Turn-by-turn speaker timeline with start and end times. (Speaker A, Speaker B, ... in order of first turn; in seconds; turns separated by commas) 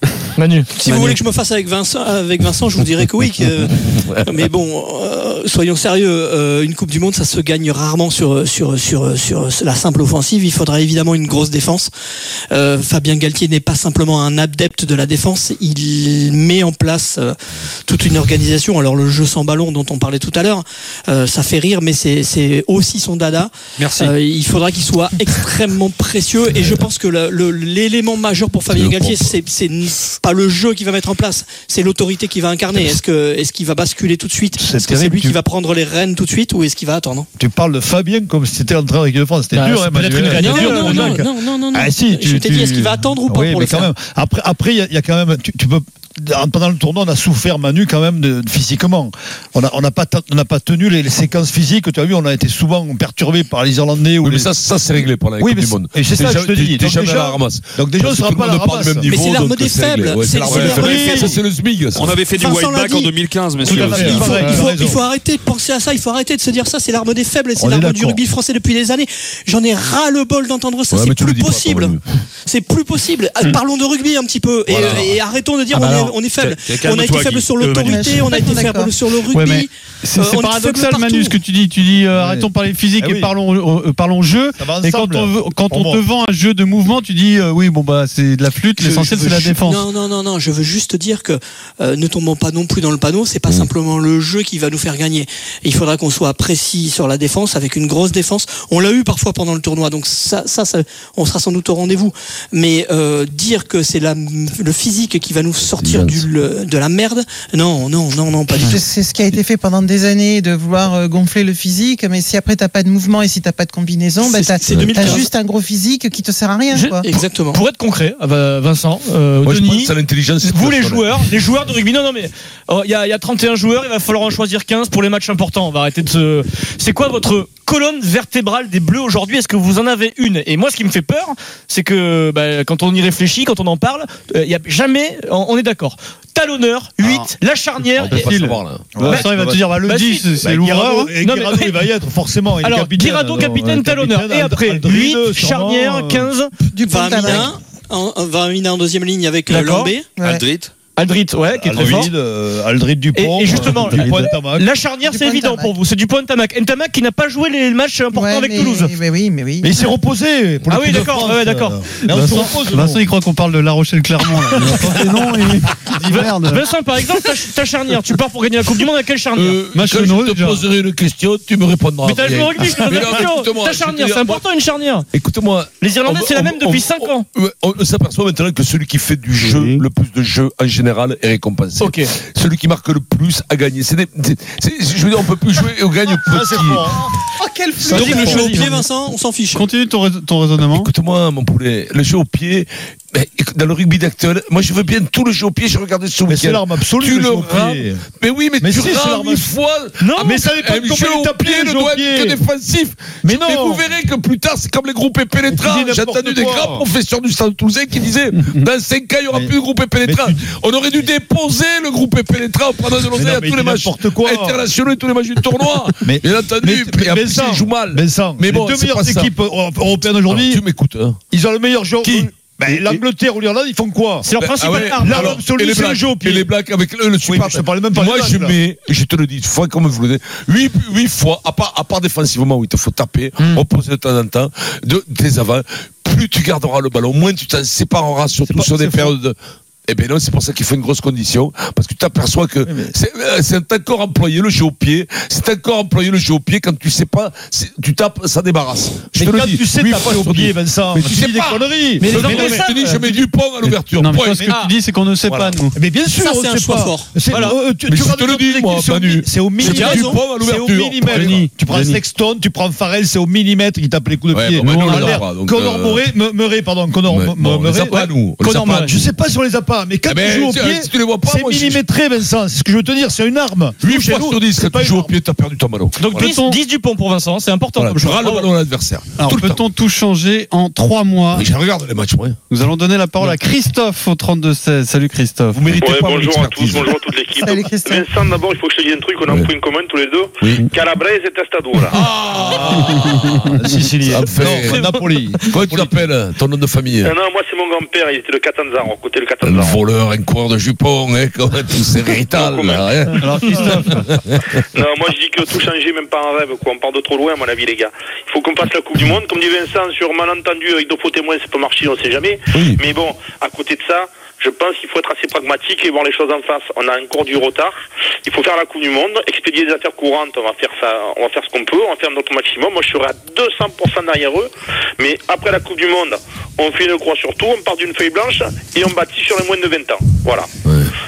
Speaker A: 0.4-0.7, Speaker B: 0.7-11.9, Speaker C: 0.8-1.2, Speaker D: 4.0-4.3, Speaker B: 12.5-37.3, Speaker D: 26.6-26.8, Speaker D: 28.7-29.4, Speaker E: 34.6-35.4, Speaker E: 37.4-54.5, Speaker A: 39.5-41.2, Speaker B: 40.3-43.9, Speaker C: 42.3-42.7, Speaker D: 54.2-62.1, Speaker E: 55.4-59.1, Speaker B: 59.1-61.4, Speaker E: 60.5-61.4, Speaker F: 62.0-64.5, Speaker B: 62.2-81.4, Speaker E: 63.6-65.0, Speaker E: 67.6-68.2, Speaker D: 70.9-72.0, Speaker D: 74.7-75.2, Speaker D: 76.4-77.6, Speaker G: 77.8-79.0, Speaker C: 79.3-89.9, Speaker E: 82.1-83.3, Speaker E: 84.6-86.0, Speaker B: 88.8-108.8, Speaker D: 105.7-106.3, Speaker G: 108.6-117.1, Speaker B: 114.2-115.3, Speaker D: 114.7-115.0, Speaker A: 116.7-117.0, Speaker B: 117.0-117.7, Speaker A: 117.5-138.3, Speaker D: 119.4-121.2, Speaker C: 137.0-137.3, Speaker D: 138.0-139.0, Speaker C: 138.1-141.1, Speaker E: 138.9-146.3, Speaker A: 139.9-140.3, Speaker A: 141.2-141.8, Speaker A: 142.6-146.5, Speaker G: 146.7-147.5, Speaker B: 146.9-150.1, Speaker A: 149.6-149.9, Speaker G: 150.2-150.4, Speaker F: 150.2-150.6, Speaker A: 151.0-152.1, Speaker E: 151.5-154.7, Speaker A: 153.2-158.9, Speaker C: 153.9-154.3, Speaker G: 155.1-155.7, Speaker G: 158.1-159.7, Speaker E: 159.6-163.0, Speaker A: 160.7-161.8, Speaker C: 162.1-166.6, Speaker A: 166.0-169.6, Speaker D: 169.3-174.4, Speaker C: 169.7-170.7, Speaker A: 172.1-175.1, Speaker D: 175.1-186.9, Speaker A: 175.8-177.3, Speaker C: 179.4-179.8, Speaker A: 181.8-182.1, Speaker E: 186.3-187.0, Speaker G: 187.2-188.6, Speaker B: 187.9-189.7, Speaker C: 187.9-188.8, Speaker C: 189.5-190.9, Speaker D: 190.6-219.3, Speaker E: 196.3-198.0, Speaker E: 198.6-199.5, Speaker A: 200.0-200.3, Speaker E: 200.2-202.4, Speaker E: 203.2-203.9, Speaker E: 205.5-206.9, Speaker E: 209.3-210.4, Speaker E: 213.1-214.7, Speaker E: 216.0-220.6, Speaker D: 220.3-221.2, Speaker E: 221.3-226.5, Speaker D: 222.0-223.0, Speaker A: 224.2-225.3, Speaker D: 224.3-254.5, Speaker E: 227.2-228.6, Speaker E: 238.5-239.1, Speaker E: 242.7-242.9, Speaker E: 249.2-252.6, Speaker A: 252.0-253.1, Speaker C: 253.9-255.8, Speaker E: 254.3-254.6, Speaker A: 254.5-254.7, Speaker D: 255.3-255.6, Speaker E: 255.7-268.1, Speaker B: 256.2-257.2, Speaker A: 257.2-257.6, Speaker D: 257.9-261.3, Speaker A: 259.6-260.1, Speaker C: 261.1-262.0, Speaker D: 264.3-266.1, Speaker D: 267.1-269.1, Speaker A: 268.4-268.9, Speaker E: 268.8-275.1, Speaker D: 270.1-271.8, Speaker D: 273.8-276.4, Speaker A: 276.0-278.5, Speaker C: 276.1-276.6, Speaker D: 277.8-279.6, Speaker C: 279.2-281.5, Speaker D: 281.3-282.4, Speaker C: 282.5-285.7, Speaker D: 285.5-287.0, Speaker H: 285.8-291.9, Speaker G: 287.4-288.1, Speaker D: 289.3-289.5, Speaker D: 290.4-290.7, Speaker D: 291.9-294.9, Speaker E: 292.4-296.0, Speaker D: 295.5-297.2, Speaker H: 297.0-299.8, Speaker D: 299.4-304.6, Speaker H: 302.4-302.8, Speaker C: 303.2-304.1, Speaker H: 304.8-330.5, Speaker D: 312.5-312.8, Speaker D: 330.6-330.9